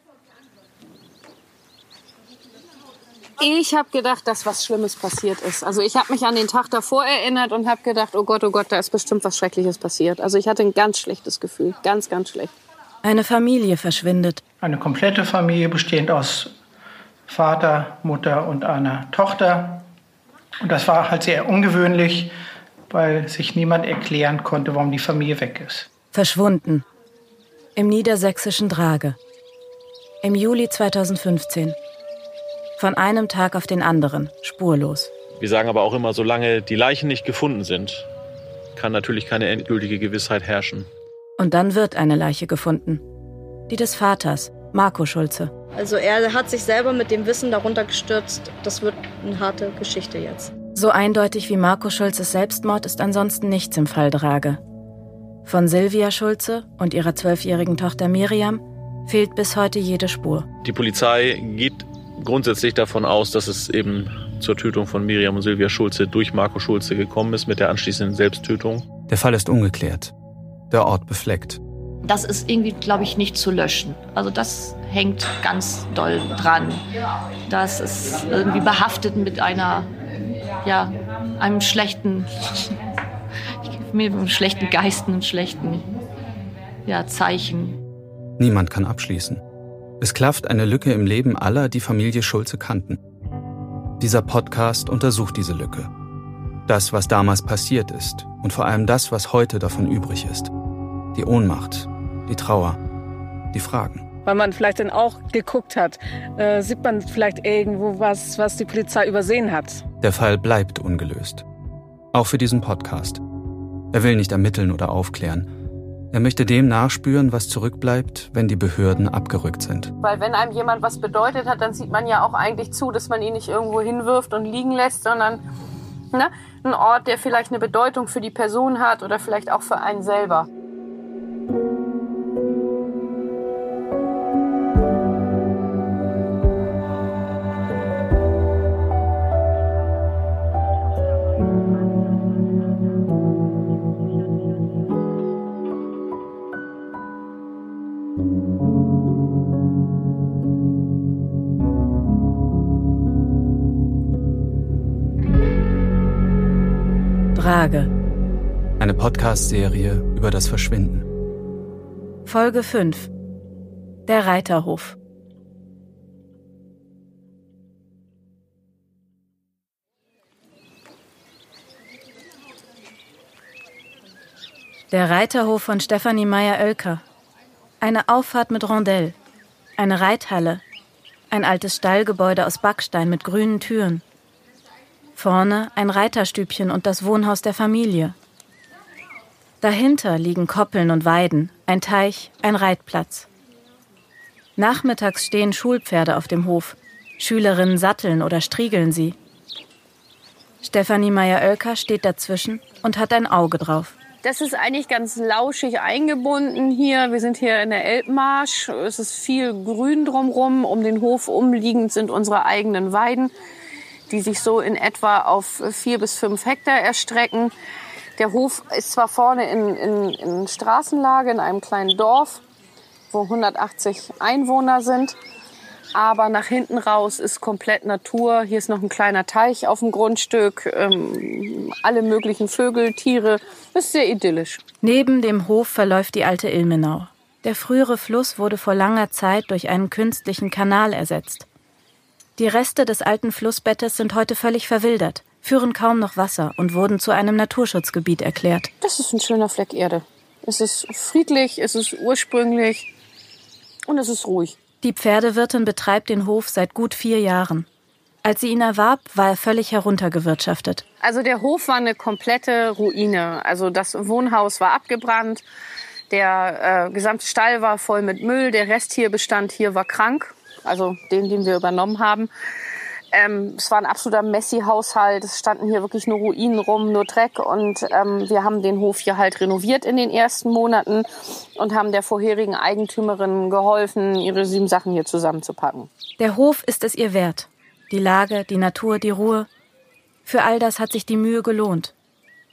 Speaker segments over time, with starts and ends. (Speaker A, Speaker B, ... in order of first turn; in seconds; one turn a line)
Speaker A: 3.4-12.5
Speaker B: 13.0-14.4
Speaker C: 14.6-16.6
Speaker C: 17.3-19.9
Speaker C: 20.6-22.3
Speaker C: 22.9-25.9
Speaker B: 26.1-26.9
Speaker B: 27.8-29.2
Speaker B: 30.2-31.8
Speaker B: 32.8-35.1
Speaker D: 35.4-38.1
Speaker D: 38.8-40.9
Speaker B: 41.4-43.0
Speaker B: 43.7-45.5
Speaker E: 45.8-50.5
Speaker B: 50.8-54.6
Speaker B: 55.5-60.5
Speaker D: 60.6-68.9
Speaker F: 69.1-70.1
Speaker F: 70.7-71.6
Speaker G: 72.0-76.8
Speaker G: 77.5-79.9
Speaker G: 80.6-82.7
Speaker G: 83.6-85.9
Speaker G: 86.9-87.8
Speaker F: 88.4-89.4
Speaker F: 90.0-93.0
Speaker F: 94.0-95.9
Speaker F: 96.7-100.5
Speaker F: 101.1-102.8
Speaker F: 103.5-104.1
Speaker H: 104.2-109.8
Speaker F: 110.0-111.5
Speaker F: 112.1-113.2
Speaker F: 113.9-115.5
Speaker F: 116.1-119.9
Speaker A: 120.0-125.4
Speaker A: 126.1-130.5
Speaker B: 157.3-157.9
Speaker F: 158.8-161.1
Speaker B: 162.3-163.1
Speaker B: 164.1-165.0
Speaker B: 174.9-177.0
Speaker B: 177.8-179.2
Speaker B: 179.8-180.6
Speaker B: 181.3-184.0
Speaker B: 185.2-188.2
Speaker B: 189.6-193.3
Speaker B: 194.6-199.2
Speaker B: 200.6-203.9
Speaker A: 204.2-213.3
Speaker A: 214.1-217.5
Speaker A: 218.2-222.4
Speaker A: 223.1-225.2
Speaker A: 225.9-234.6
Speaker B: 234.8-241.5
Speaker B: 242.4-248.7
Speaker A: 248.8-252.9
Speaker A: 253.9-254.6
Speaker B: 254.8-257.7
Speaker B: 258.2-260.8
Speaker A: 261.0-265.4
Speaker A: 266.1-272.3
Speaker A: 273.1-285.9
Speaker B: 286.2-289.5
Speaker B: 290.3-291.9